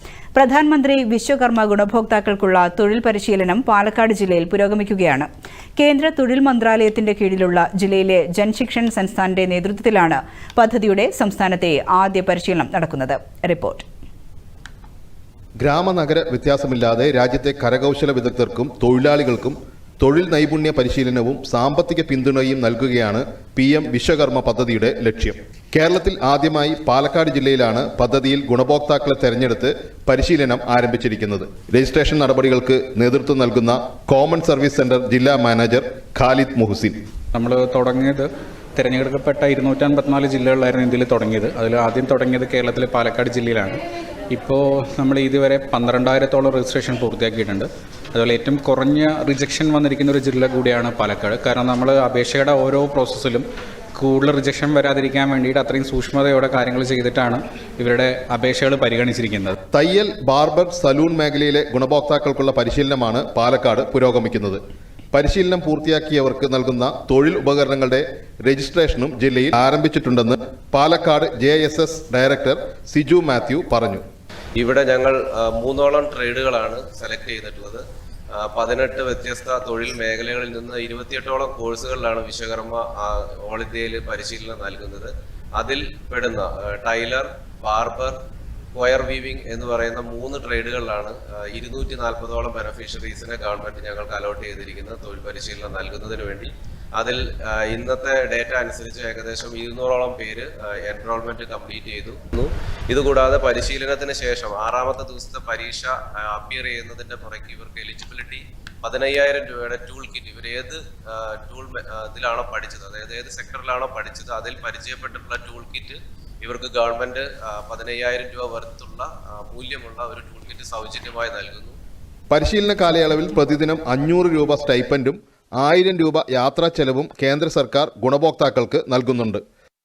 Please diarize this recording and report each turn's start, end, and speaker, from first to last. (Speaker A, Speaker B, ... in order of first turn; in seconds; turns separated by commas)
Speaker A: 0.3-13.8, Speaker B: 15.6-37.0, Speaker C: 37.3-43.8, Speaker C: 44.3-53.4, Speaker C: 54.0-59.5, Speaker B: 59.7-64.6, Speaker B: 65.1-74.0, Speaker D: 74.6-77.8, Speaker D: 78.3-88.2, Speaker D: 88.7-121.8, Speaker B: 122.3-129.4